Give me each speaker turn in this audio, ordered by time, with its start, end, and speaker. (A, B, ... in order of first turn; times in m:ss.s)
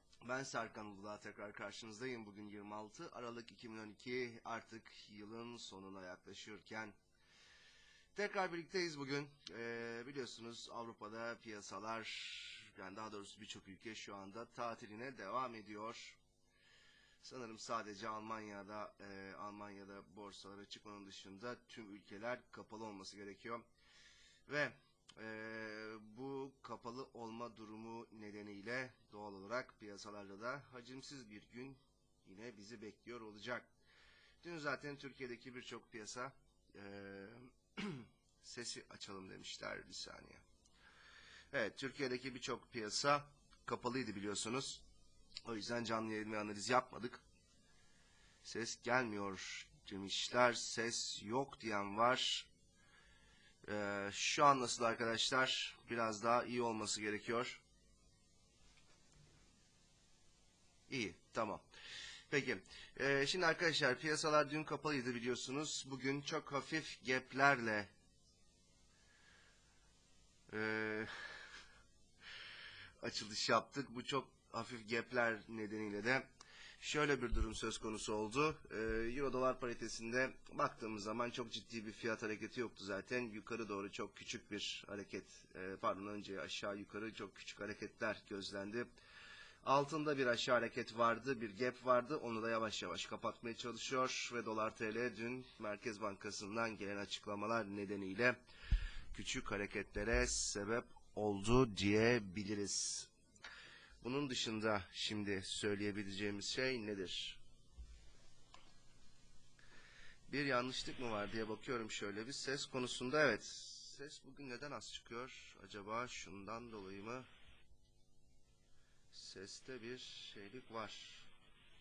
0:00.2-0:07.0 A
0:08.1-0:16.2 A
0:17.2-0:23.6 A
0:24.5-0:33.7 A
0:34.4-0:40.4 A
0:41.5-0:44.8 A
0:45.5-0:47.2 A
0:48.4-0:52.5 A
0:53.6-0:57.6 A
1:00.9-1:01.6 A
1:02.3-1:07.9 A
1:10.5-1:11.1 A
1:13.0-1:16.3 A
1:16.8-1:28.9 A
1:29.6-1:38.4 A
1:39.1-1:43.1 A
1:44.0-1:47.4 A
1:50.3-1:57.3 A
1:59.1-2:01.3 A